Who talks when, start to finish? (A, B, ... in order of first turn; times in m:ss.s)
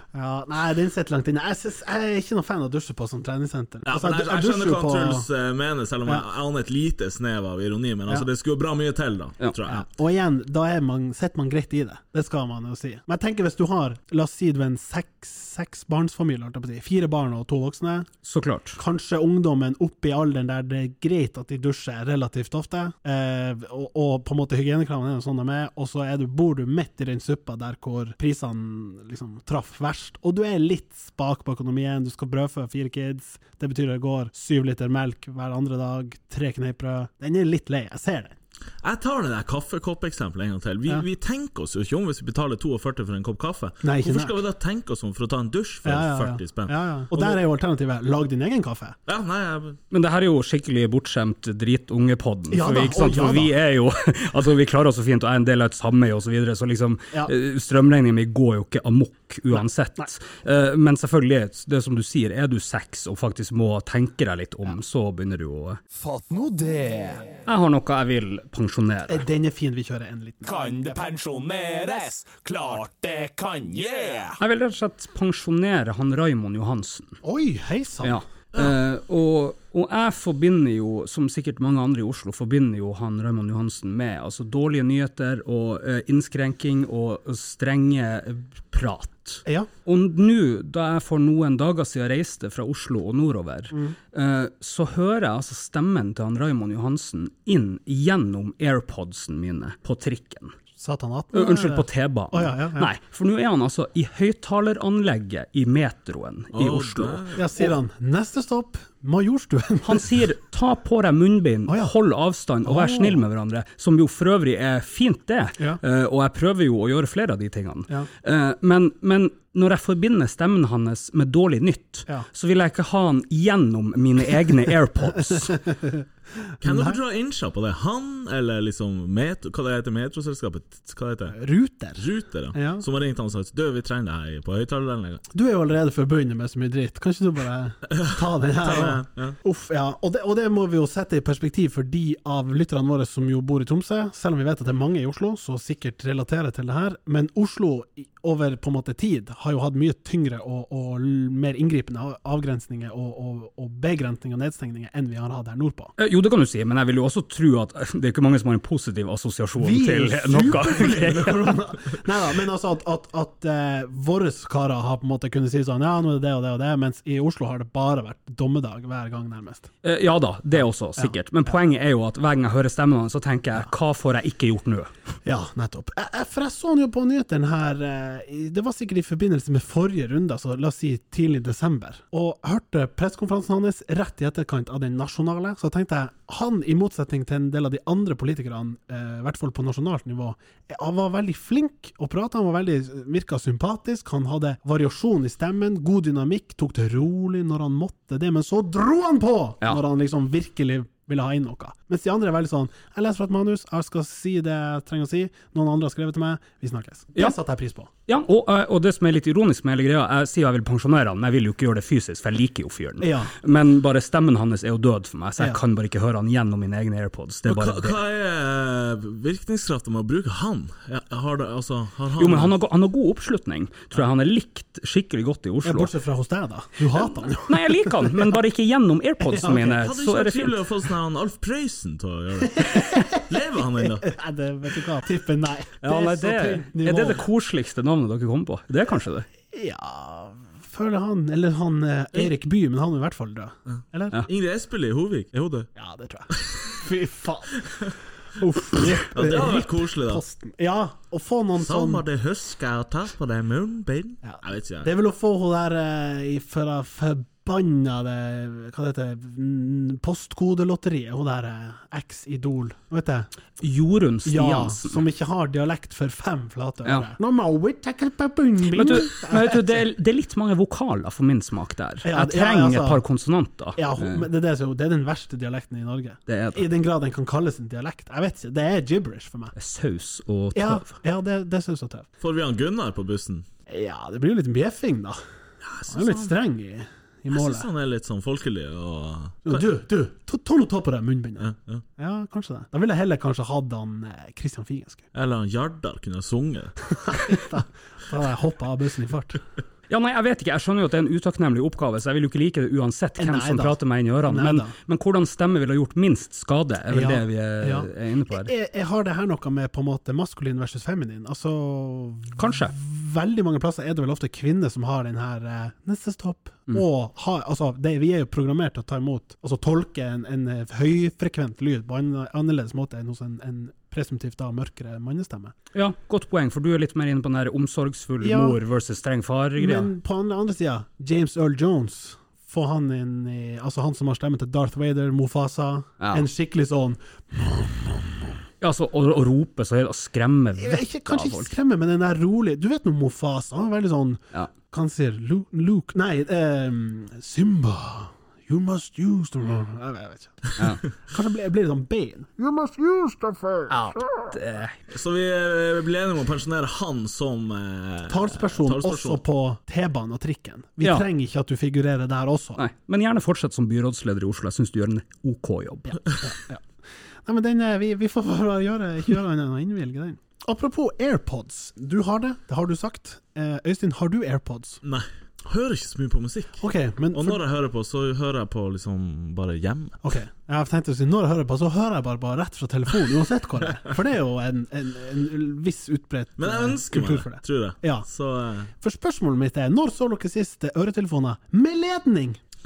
0:00.1-0:05.3 A
0:03.8-0:09.9 B
0:09.7-0:18.1 A
0:18.2-0:18.8 C
0:18.8-0:38.4 A
0:38.8-0:47.4 B
0:43.8-0:44.4 A
0:45.8-0:49.0 A
0:49.1-0:49.8 B
0:49.9-1:05.8 C
0:52.5-0:53.5 A
1:06.0-1:07.3 D
1:07.5-1:09.2 C
1:09.1-1:10.6 A
1:10.4-1:14.4 D
1:14.4-1:17.2 C
1:17.2-1:18.2 A
1:18.0-1:40.5 C
1:40.8-1:42.9 A
1:41.3-1:47.2 C
1:46.5-1:47.7 B
1:47.4-1:50.2 A
1:49.8-2:05.6 C
1:51.7-1:51.9 A
1:52.6-1:53.2 A
2:05.3-2:07.0 A
2:06.6-2:11.4 B
2:11.3-2:12.8 A
2:12.0-2:15.2 B
2:15.3-2:35.9 A
2:17.9-2:19.4 B
2:36.0-2:41.6 C
2:39.6-2:49.7 A
2:49.8-2:54.9 C
2:55.2-3:27.9 A
3:28.1-3:38.0 C
3:33.0-3:33.3 A
3:37.5-3:42.5 B
3:42.2-3:45.9 C
3:45.6-3:48.2 A
3:47.3-3:50.6 C
3:49.3-3:49.8 A
3:49.8-3:54.1 B
3:52.5-3:57.2 A
3:55.8-3:59.3 C
3:59.5-4:04.2 A
4:03.7-4:05.7 B
4:05.8-4:12.0 A
4:06.3-4:06.7 B
4:07.6-4:07.9 B
4:09.1-4:10.2 B
4:11.6-4:14.9 B
4:14.2-4:23.3 A
4:23.6-4:25.0 C
4:24.3-4:29.8 A
4:28.7-4:34.3 C
4:32.0-4:33.0 A
4:33.8-4:39.5 A
4:36.3-4:36.7 C
4:39.6-4:40.9 C
4:40.5-4:42.1 A
4:42.2-4:43.5 B
4:43.7-4:45.2 A
4:45.6-4:46.3 B
4:45.9-4:47.7 A
4:47.3-4:49.6 B
4:49.5-4:55.0 A
4:51.4-4:51.8 B
4:55.1-4:57.4 B
4:57.0-4:59.4 A
4:59.9-5:08.5 C
5:03.2-5:04.7 A
5:06.9-5:25.6 A
5:12.4-5:12.8 C
5:25.7-5:29.9 C
5:28.2-5:28.6 A
5:29.6-5:38.4 A
5:36.0-5:36.3 C
5:38.6-5:41.5 C
5:40.6-5:54.0 A
5:53.7-5:54.8 C
5:54.9-5:59.2 B
5:58.1-6:02.6 A
6:02.6-6:06.0 C
6:05.9-6:06.6 A
6:07.2-6:14.8 A
6:14.8-6:20.0 B
6:16.6-6:17.4 A
6:20.0-6:28.1 A
6:26.4-6:28.7 B
6:28.8-6:32.4 A